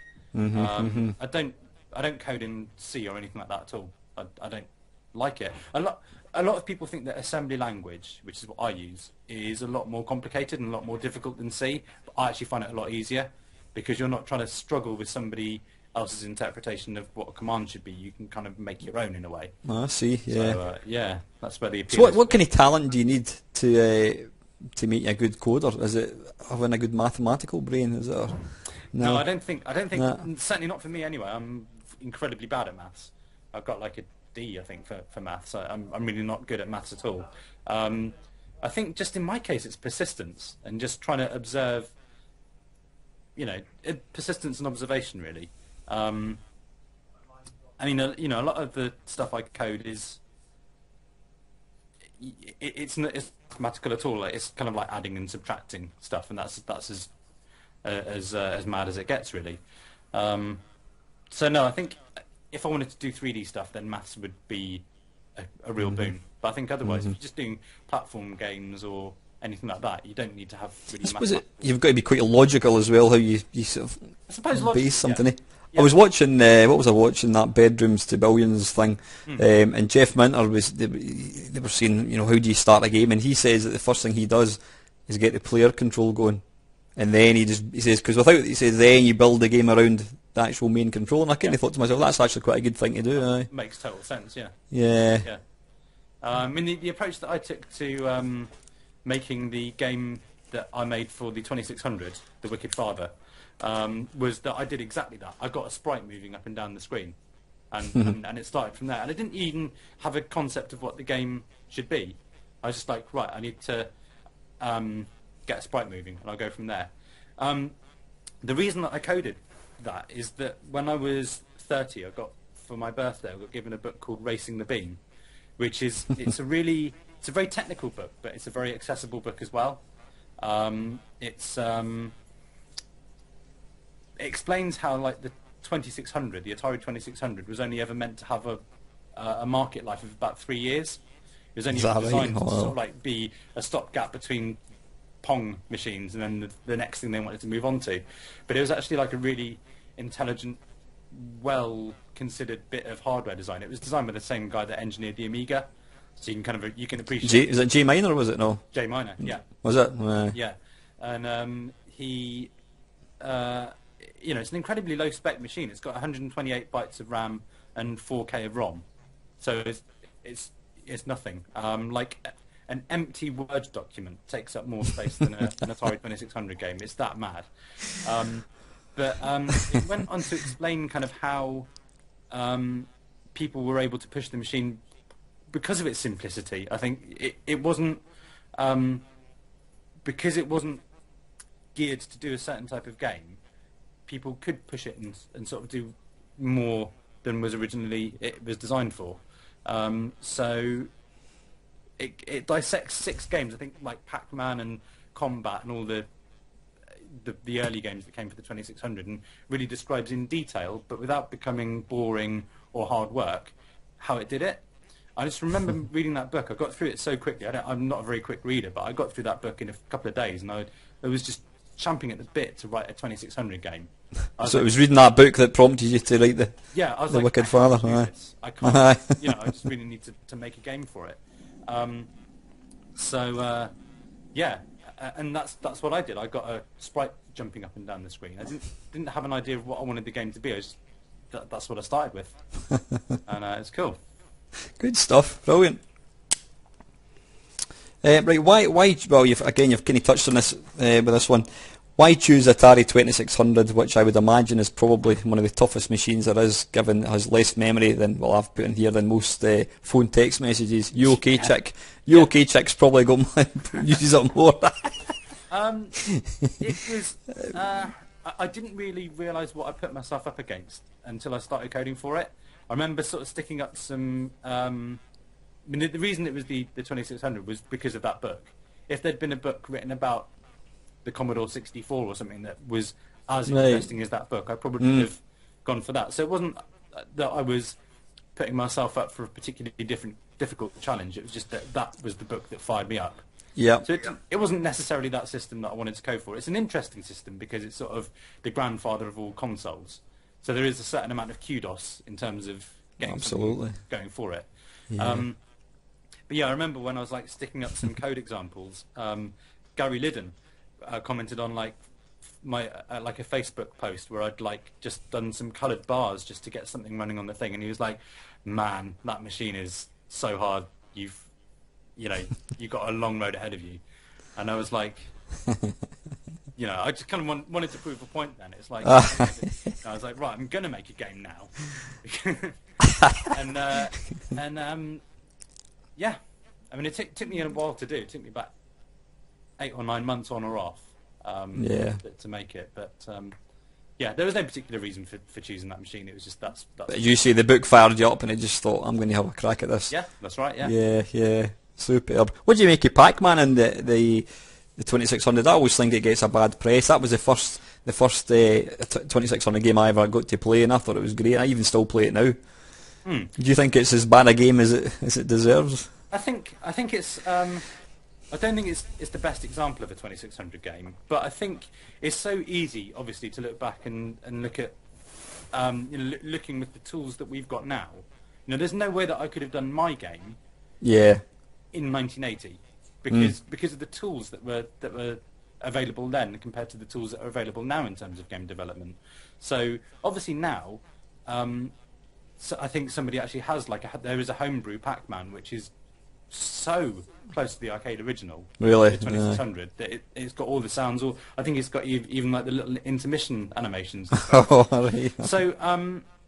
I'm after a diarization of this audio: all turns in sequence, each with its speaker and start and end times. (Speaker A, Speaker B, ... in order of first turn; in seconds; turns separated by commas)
Speaker A: 0.3-1.1, Speaker B: 0.5-19.5, Speaker A: 19.6-20.6, Speaker B: 20.3-22.4, Speaker A: 21.9-29.2, Speaker B: 29.0-41.9, Speaker A: 29.9-30.2, Speaker B: 43.4-46.4, Speaker B: 47.8-50.2, Speaker B: 52.2-57.1, Speaker B: 57.8-59.6, Speaker B: 60.1-60.6, Speaker B: 61.3-64.8, Speaker B: 65.4-71.7, Speaker A: 65.8-66.1, Speaker A: 66.8-67.1, Speaker A: 71.0-86.4, Speaker B: 74.3-75.9, Speaker A: 87.0-93.5, Speaker B: 93.2-94.5, Speaker A: 94.7-95.2, Speaker B: 95.1-95.4, Speaker B: 96.2-98.5, Speaker B: 99.0-107.2, Speaker B: 107.7-113.9, Speaker B: 114.6-117.8, Speaker B: 118.4-125.0, Speaker B: 125.6-129.8, Speaker B: 130.4-132.1, Speaker B: 134.2-138.6, Speaker B: 139.2-141.0, Speaker B: 141.6-144.6, Speaker A: 141.7-142.7, Speaker B: 145.2-155.7, Speaker B: 156.2-157.6, Speaker A: 157.2-158.6, Speaker B: 158.7-159.5, Speaker A: 159.6-160.3, Speaker B: 160.3-162.5, Speaker B: 163.2-168.8, Speaker B: 169.4-181.7, Speaker B: 182.3-184.8, Speaker B: 185.5-188.0, Speaker B: 188.5-189.0, Speaker B: 190.0-190.8, Speaker B: 191.7-193.4, Speaker B: 194.1-200.9, Speaker B: 202.0-206.1, Speaker B: 207.1-214.6, Speaker B: 215.2-224.7, Speaker A: 224.4-226.6, Speaker B: 226.7-232.1, Speaker A: 227.1-228.1, Speaker A: 228.6-229.5, Speaker B: 232.9-233.7, Speaker B: 234.3-240.8, Speaker B: 241.3-242.4, Speaker B: 243.2-244.0, Speaker A: 244.8-245.8, Speaker A: 248.0-265.1, Speaker B: 261.2-261.5, Speaker B: 265.5-266.0, Speaker A: 266.0-266.5, Speaker B: 266.6-275.0, Speaker B: 275.7-280.3, Speaker B: 281.0-287.7, Speaker A: 283.5-283.9, Speaker A: 284.8-285.1, Speaker B: 288.4-293.2, Speaker A: 293.6-293.9, Speaker B: 293.8-305.4, Speaker A: 303.0-303.8, Speaker A: 304.9-305.2, Speaker B: 306.3-321.3, Speaker B: 322.0-323.8, Speaker B: 324.4-325.1, Speaker A: 325.5-325.7, Speaker B: 326.6-332.6, Speaker A: 328.8-329.3, Speaker A: 332.9-333.3, Speaker B: 333.2-335.0, Speaker B: 336.7-338.5, Speaker B: 339.6-343.3, Speaker A: 341.5-342.0, Speaker B: 344.0-347.1, Speaker A: 346.9-349.9, Speaker B: 349.9-350.7, Speaker A: 350.6-362.4, Speaker B: 363.0-363.3, Speaker A: 363.4-365.9, Speaker B: 366.1-367.6, Speaker B: 368.3-374.8, Speaker B: 375.5-380.4, Speaker A: 380.8-381.2, Speaker B: 381.7-391.7, Speaker B: 392.4-395.7, Speaker B: 396.3-404.5, Speaker A: 398.6-399.4, Speaker A: 404.1-405.3, Speaker B: 405.2-406.1